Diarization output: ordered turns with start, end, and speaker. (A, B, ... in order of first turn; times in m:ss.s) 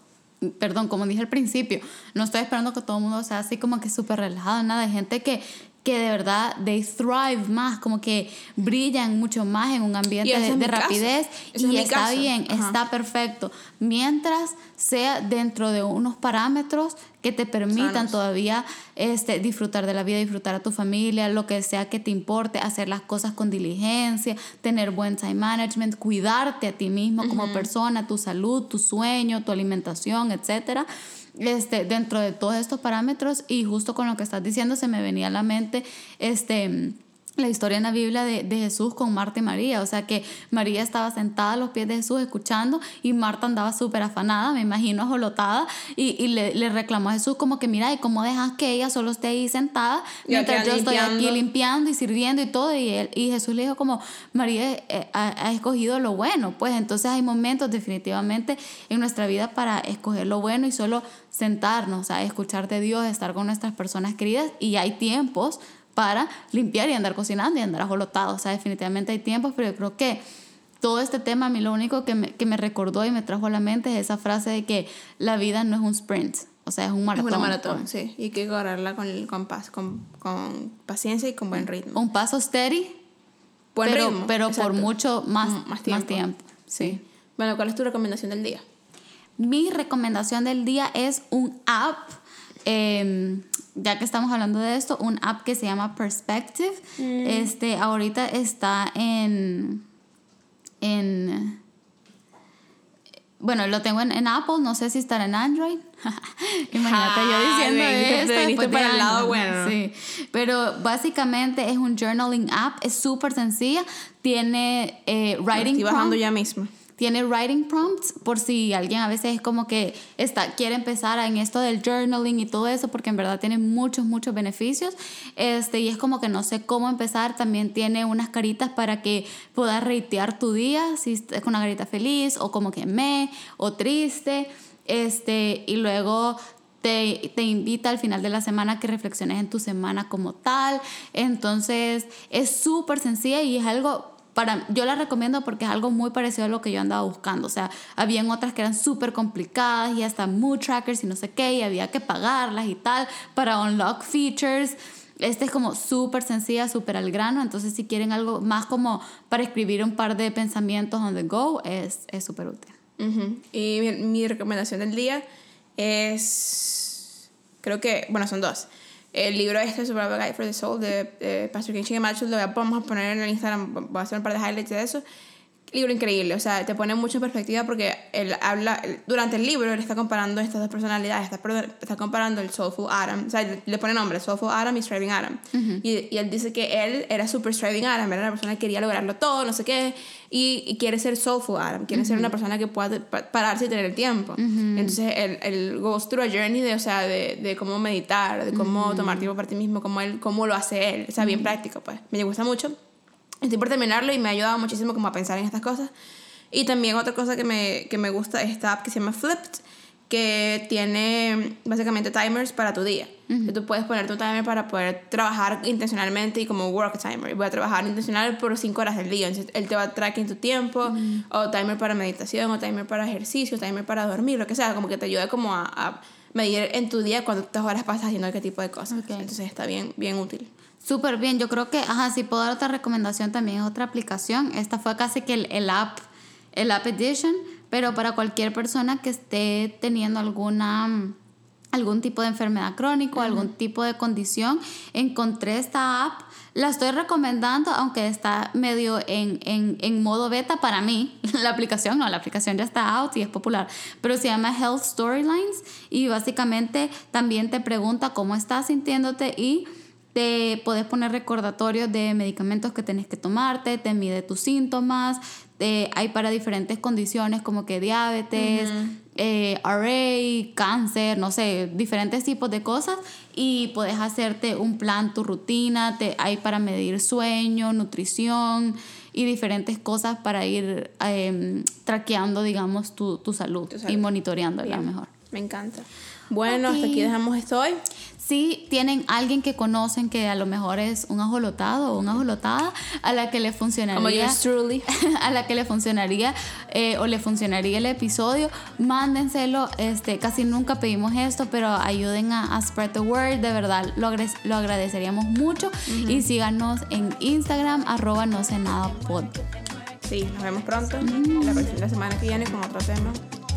0:00.4-1:10.2 A
0:10.2-0:12.8 B
0:17.7-0:18.2 B
0:27.2-0:27.7 B
0:50.3-0:51.4 B
1:10.8-1:17.8 A
1:17.1-1:22.0 B
1:21.9-1:22.9 A
1:23.7-1:24.9 B
1:23.8-1:27.0 A
1:25.4-1:26.2 B
1:26.8-1:28.6 B
1:29.4-1:39.8 A
1:37.0-1:37.5 B
1:40.8-1:41.6 A
1:43.4-1:56.2 A
1:46.7-1:49.8 B
1:55.5-1:56.7 B
1:57.0-2:42.7 A
2:43.0-2:45.2 B
2:45.8-2:47.1 B
2:47.6-2:55.0 B
2:55.7-3:22.8 B
3:05.5-3:05.8 A
3:11.9-3:12.3 A
3:14.4-3:15.0 A
3:18.5-3:19.3 A
3:21.2-3:21.5 A
3:23.4-3:25.9 B
3:26.5-3:50.5 B
3:33.3-3:33.6 A
3:40.9-3:41.2 A
3:48.9-3:49.3 A
3:50.8-4:01.2 A
4:01.7-4:45.1 A
4:03.1-4:03.5 B
4:28.4-4:29.0 B
4:43.7-4:44.0 B
4:44.6-4:47.8 B
4:46.5-4:47.1 A
4:48.2-5:09.4 A
4:53.9-4:54.9 B
5:05.9-5:06.3 B
5:10.0-5:13.2 B
5:11.0-5:11.7 A